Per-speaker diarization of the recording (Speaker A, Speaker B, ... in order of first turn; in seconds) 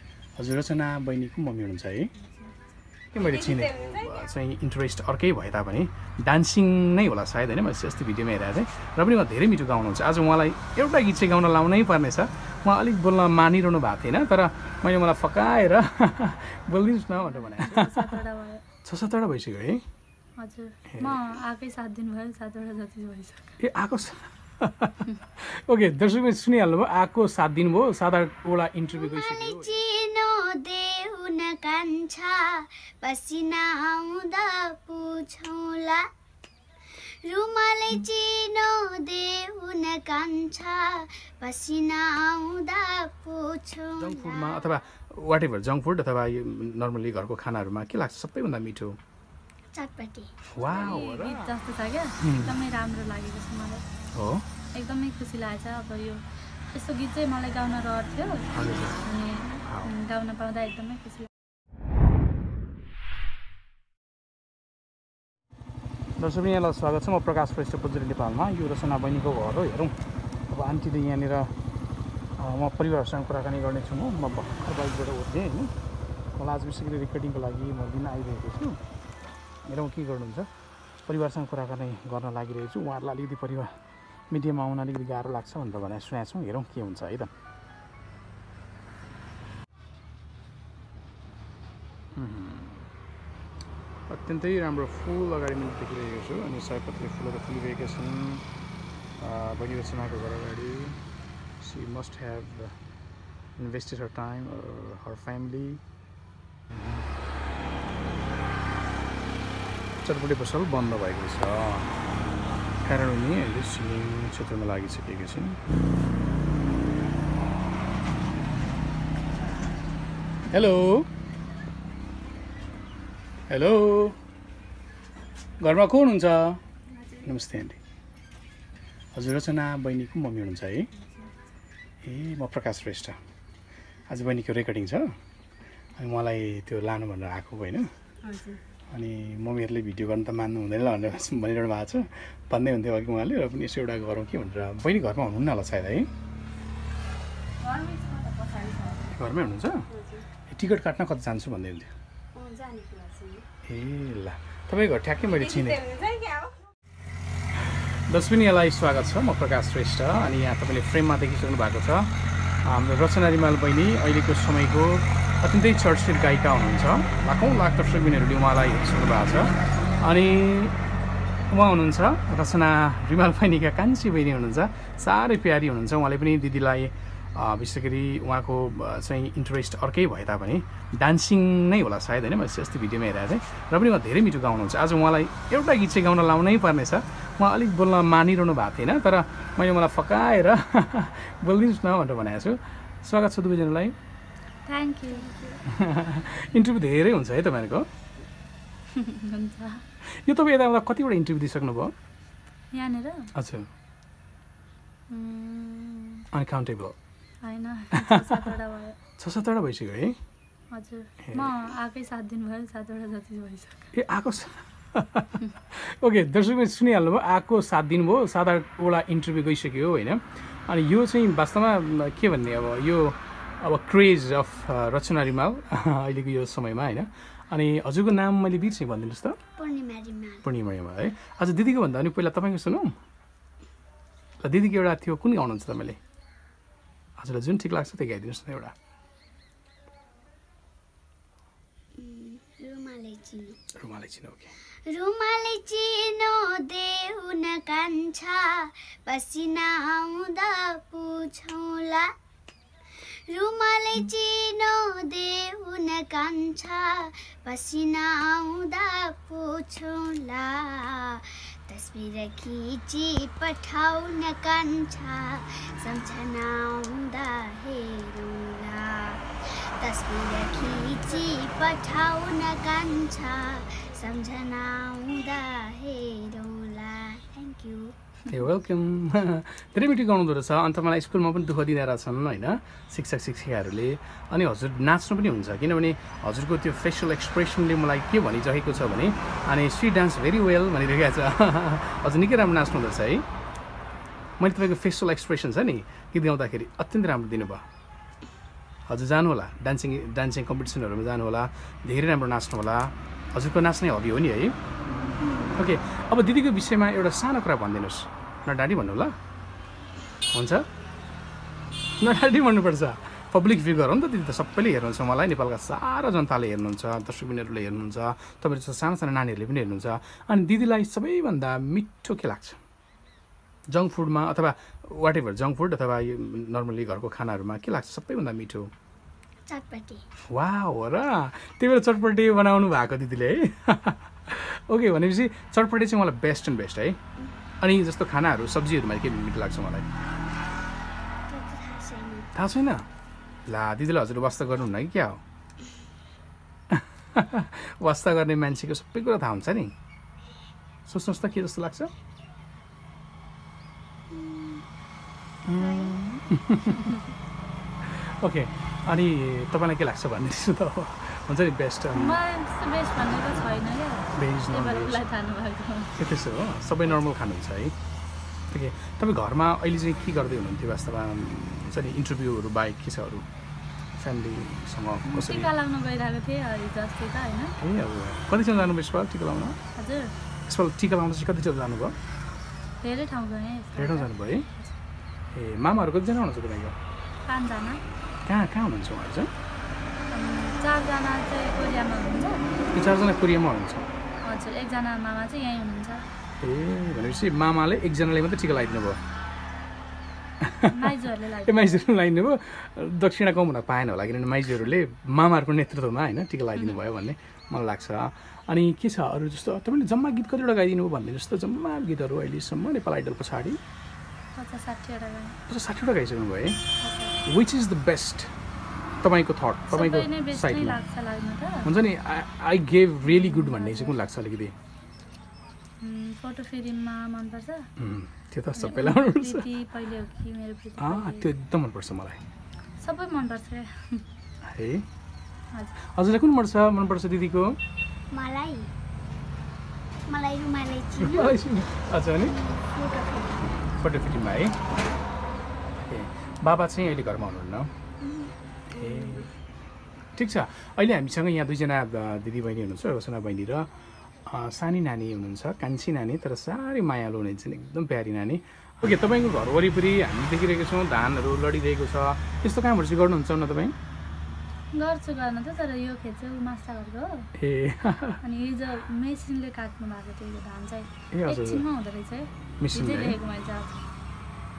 Speaker A: 0.4-2.1, 3.1-18.2, 18.8-19.8, 20.9-21.2, 23.6-29.8, 44.0-49.0, 50.5-51.5, 52.2-52.6, 54.1-54.5, 58.5-59.0, 59.6-59.9, 66.2-70.0, 70.5-71.5, 72.4-75.7, 76.3-78.8, 79.7-80.5, 81.0-83.7, 84.3-87.3, 92.2-92.9, 94.1-98.4, 99.2-101.0, 101.6-102.7, 103.6-105.8, 106.7-107.0, 110.0-111.9, 112.8-115.6, 120.5-121.1, 123.5-124.2, 125.6-126.6, 127.2-127.8, 129.1-130.9, 132.0-133.2, 134.1-135.1, 136.0-137.9, 138.9-146.1, 149.1-149.9, 150.5-151.9, 153.7-155.9, 157.7-162.1, 162.6-170.8, 171.5-193.9, 195.7-197.8, 200.0-201.9, 203.3-203.7, 206.3-206.9, 207.9-208.5, 209.2-210.2, 213.9-229.4, 230.4-232.9, 234.4-236.0, 237.2-238.7, 243.7-244.5, 278.3-293.2, 294.4-297.6, 298.9-304.5, 305.5-309.1, 310.3-310.6, 312.0-322.6, 323.7-328.7, 330.3-337.0, 337.6-339.9, 342.3-342.8, 343.5-345.2, 346.7-349.7, 350.9-351.9, 355.4-357.0, 357.8-362.2, 364.1-365.0, 366.0-367.7, 368.5-373.2, 374.0-375.5, 377.6-379.6, 380.4-382.0, 383.7-384.4, 385.3-386.8, 388.2-389.3, 392.7-393.9, 396.4-399.0, 400.4-413.6, 415.5-416.6, 417.2-418.3, 419.0-420.8, 421.6-424.5, 427.8-429.4, 430.8-432.2, 434.4-434.9, 435.8-437.6, 441.0-442.3, 443.5-444.6, 445.8-447.7, 448.7-449.3, 450.1-453.7, 454.2-463.7, 467.4-468.2, 471.1-471.6, 472.6-473.2
Speaker B: 17.2-18.6, 20.4-23.5, 50.6-53.8, 54.7-58.5, 59.0-61.3, 138.2-138.6, 147.6-149.2, 149.9-150.2, 152.3-153.4, 155.3-156.5, 194.7-195.3, 198.9-199.8, 202.7-203.3, 205.1-206.2, 207.4-209.0, 210.7-213.9, 361.9-366.0, 375.1-377.5, 379.8-380.1, 382.8-384.7, 387.2-387.8, 390.1-392.4, 394.2-396.1, 400.7-401.9, 414.4-415.4, 416.8-417.2, 419.7-421.7, 423.0-424.0, 425.8-427.6, 428.6-431.3, 432.8-434.0, 464.7-467.3, 468.2-473.8
Speaker C: 28.9-36.0, 37.2-44.7, 49.7-50.3, 195.1-195.6, 229.6-230.4, 242.0-243.6, 244.9-252.1, 253.1-277.9, 305.1-305.6, 329.5-330.0, 341.3-342.3, 354.1-354.6, 355.5-356.0, 438.1-438.7, 440.1-441.4, 442.2-443.4, 448.0-449.3